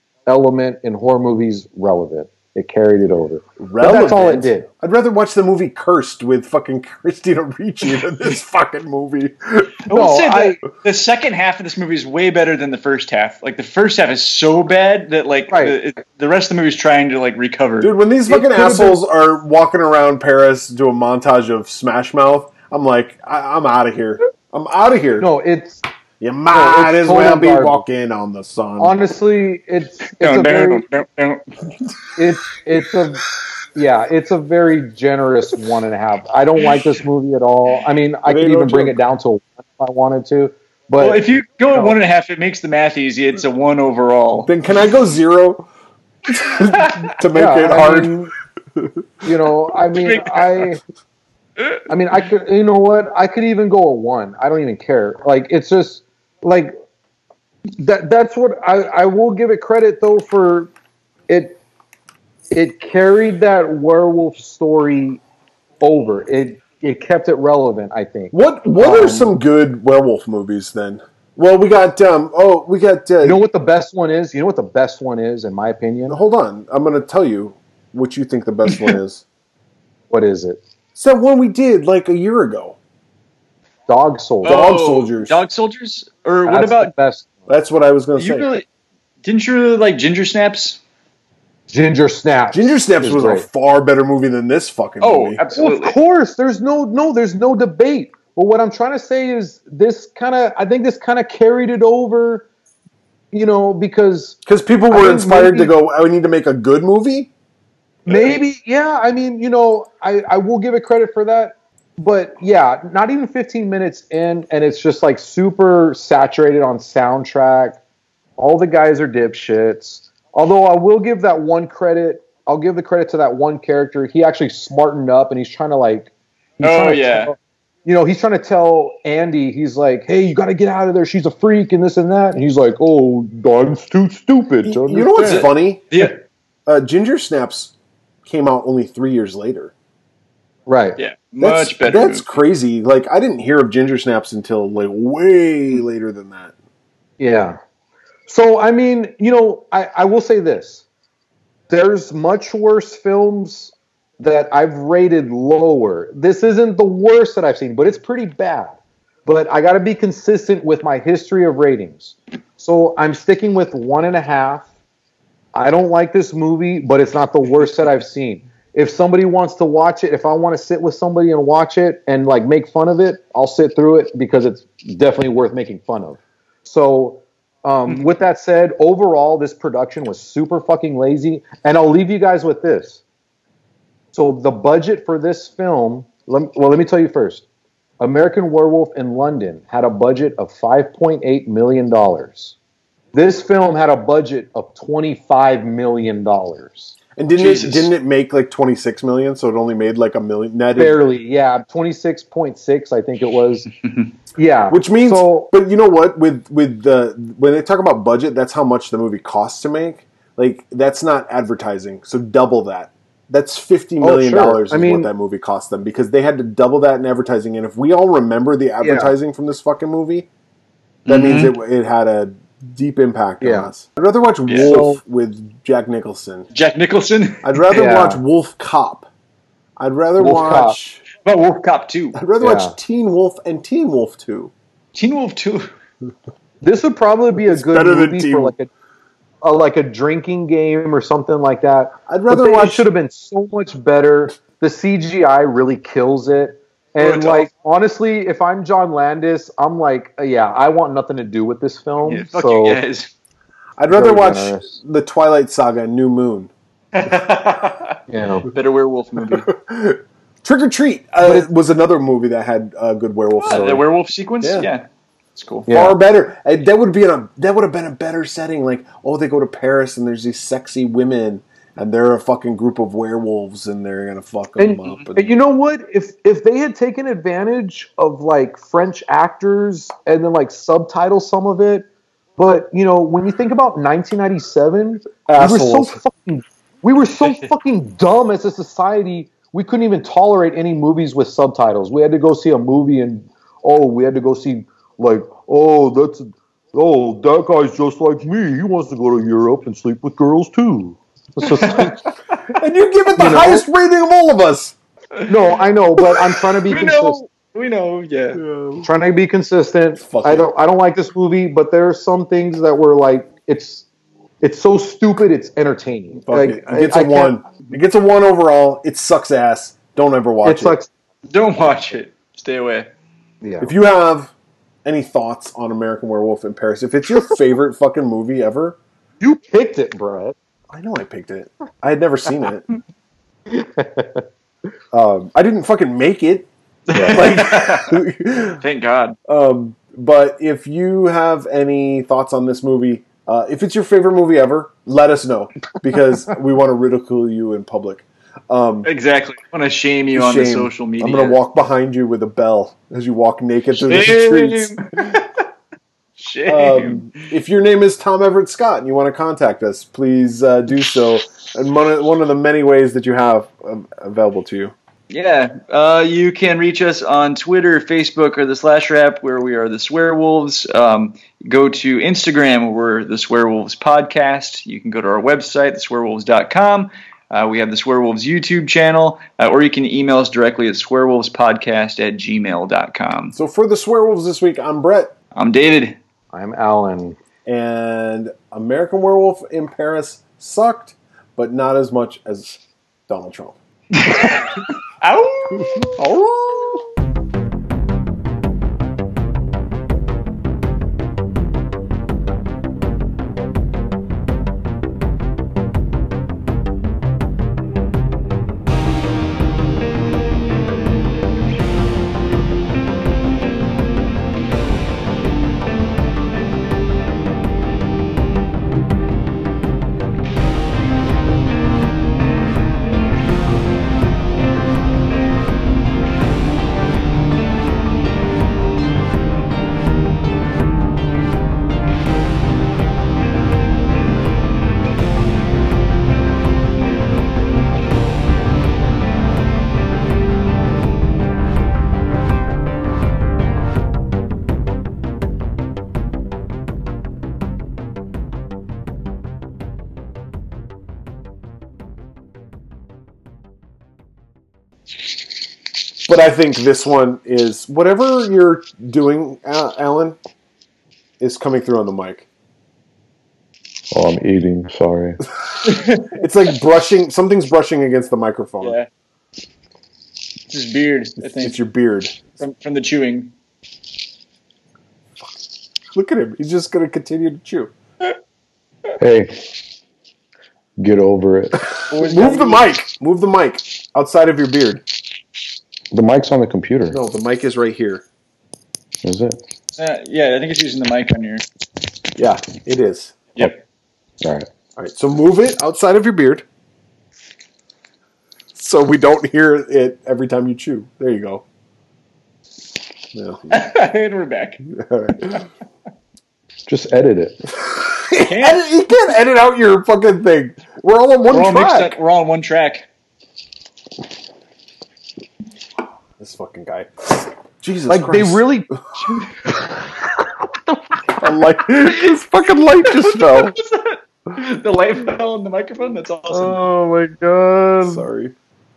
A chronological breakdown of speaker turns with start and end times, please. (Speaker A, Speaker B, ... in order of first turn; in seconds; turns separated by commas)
Speaker A: 0.3-4.7, Speaker B: 3.6-9.9, Speaker C: 9.9-17.9, Speaker A: 9.9-10.6, Speaker A: 15.5-15.8, Speaker B: 17.8-25.3, Speaker A: 18.3-19.0, Speaker A: 25.2-25.8, Speaker B: 26.2-29.0, Speaker A: 26.5-27.8, Speaker A: 28.8-30.8, Speaker C: 30.2-31.4, Speaker A: 32.2-33.2, Speaker A: 33.8-41.2, Speaker B: 38.3-39.0, Speaker C: 41.0-44.5, Speaker B: 44.5-45.7, Speaker B: 46.3-48.3, Speaker C: 46.7-47.1, Speaker A: 47.4-48.3, Speaker A: 49.2-50.8, Speaker C: 50.0-50.7, Speaker A: 51.9-56.7, Speaker A: 57.8-60.7, Speaker A: 61.3-61.6, Speaker A: 62.5-65.2, Speaker A: 65.8-69.3, Speaker B: 68.3-73.4, Speaker A: 73.2-76.2, Speaker B: 76.1-79.2, Speaker C: 78.7-79.0, Speaker A: 80.1-80.6, Speaker B: 81.0-82.8, Speaker A: 83.9-84.7, Speaker B: 84.4-85.4, Speaker C: 84.4-86.9, Speaker A: 86.5-87.5, Speaker B: 87.5-88.5, Speaker C: 88.2-88.7, Speaker C: 89.2-90.8, Speaker A: 91.7-93.5, Speaker B: 92.5-95.4, Speaker C: 95.0-96.0, Speaker A: 95.6-102.5, Speaker A: 103.3-104.4, Speaker B: 104.5-107.3, Speaker A: 104.9-105.7, Speaker A: 108.1-117.8, Speaker B: 108.1-108.4, Speaker A: 118.4-136.1, Speaker C: 126.6-127.3, Speaker B: 134.6-135.8, Speaker C: 135.2-136.2, Speaker B: 136.7-137.7, Speaker B: 138.2-139.7, Speaker A: 140.7-141.0, Speaker C: 141.0-142.4, Speaker B: 141.4-146.5, Speaker A: 147.2-147.6, Speaker A: 148.3-150.8, Speaker A: 151.7-164.7, Speaker A: 165.5-183.0, Speaker A: 184.1-187.4, Speaker A: 188.0-192.6, Speaker A: 193.1-197.0, Speaker B: 197.2-201.0, Speaker C: 197.4-197.9, Speaker A: 200.8-203.7, Speaker C: 203.8-204.1, Speaker A: 204.3-205.5, Speaker B: 204.7-220.3, Speaker A: 214.0-215.1, Speaker A: 218.8-219.1, Speaker C: 221.1-221.5, Speaker B: 221.1-226.5, Speaker A: 223.4-223.7, Speaker C: 224.5-224.8, Speaker A: 224.6-225.0, Speaker C: 226.5-227.6, Speaker B: 227.4-229.1, Speaker A: 227.7-228.2, Speaker B: 229.8-231.1, Speaker A: 230.2-230.8, Speaker C: 231.2-232.2, Speaker B: 232.2-234.5, Speaker A: 232.4-232.8, Speaker C: 234.9-235.7, Speaker A: 236.6-238.7, Speaker B: 237.5-238.6, Speaker A: 239.4-252.8, Speaker B: 242.1-242.9, Speaker C: 247.0-247.5, Speaker C: 252.0-253.1, Speaker B: 253.8-256.5, Speaker A: 253.9-254.8, Speaker C: 256.9-259.5, Speaker A: 258.1-258.5, Speaker B: 259.3-263.8, Speaker A: 261.2-261.5, Speaker C: 263.4-265.7, Speaker A: 263.5-263.8, Speaker B: 264.4-264.7, Speaker A: 265.7-266.0, Speaker B: 265.7-275.3, Speaker A: 274.6-281.9, Speaker A: 282.4-302.0, Speaker B: 285.3-286.0, Speaker C: 301.4-301.9, Speaker B: 302.5-304.8, Speaker A: 303.1-303.6, Speaker A: 305.3-307.2, Speaker C: 306.0-308.4, Speaker B: 308.4-308.9, Speaker A: 308.8-313.9, Speaker B: 310.0-310.5, Speaker A: 314.4-317.4, Speaker B: 316.3-320.8, Speaker A: 320.4-320.9, Speaker C: 321.3-322.9, Speaker A: 323.4-323.7, Speaker B: 323.6-324.3, Speaker B: 324.9-328.8, Speaker A: 329.2-330.4, Speaker B: 330.7-332.7, Speaker A: 333.5-334.2, Speaker B: 334.9-336.5, Speaker C: 336.9-338.0, Speaker A: 336.9-337.2, Speaker B: 337.1-338.6, Speaker C: 338.6-339.2, Speaker B: 339.3-348.9, Speaker C: 348.9-351.4, Speaker B: 350.1-354.8, Speaker C: 353.8-355.3, Speaker C: 356.2-357.1, Speaker B: 356.5-364.7, Speaker C: 365.1-383.4, Speaker B: 383.3-385.1, Speaker C: 385.4-386.0, Speaker A: 386.3-387.2, Speaker B: 387.5-393.6, Speaker C: 393.9-396.9, Speaker B: 456.1-460.2, Speaker B: 461.2-462.3, Speaker A: 463.9-465.2, Speaker C: 465.6-466.2, Speaker B: 466.1-468.8, Speaker C: 468.6-468.9, Speaker C: 470.5-471.6, Speaker B: 471.2-472.2, Speaker C: 472.2-473.3, Speaker B: 475.9-477.7, Speaker A: 479.0-479.3, Speaker A: 480.8-481.8, Speaker C: 481.9-482.7, Speaker B: 481.9-484.8, Speaker A: 485.9-487.0, Speaker B: 486.9-488.0, Speaker A: 489.0-489.4, Speaker C: 489.7-491.4, Speaker B: 492.2-493.2, Speaker C: 493.4-493.6, Speaker A: 494.2-494.5, Speaker B: 494.8-496.4, Speaker B: 498.6-501.4, Speaker B: 503.1-503.6, Speaker C: 503.5-504.6, Speaker B: 504.7-505.5, Speaker A: 506.7-507.4, Speaker B: 507.7-512.0, Speaker C: 508.2-508.6, Speaker C: 511.3-512.9, Speaker B: 516.2-518.5, Speaker A: 517.9-518.7, Speaker A: 519.5-521.1, Speaker B: 521.2-523.6, Speaker C: 522.9-526.6, Speaker A: 526.3-528.0, Speaker B: 527.8-528.3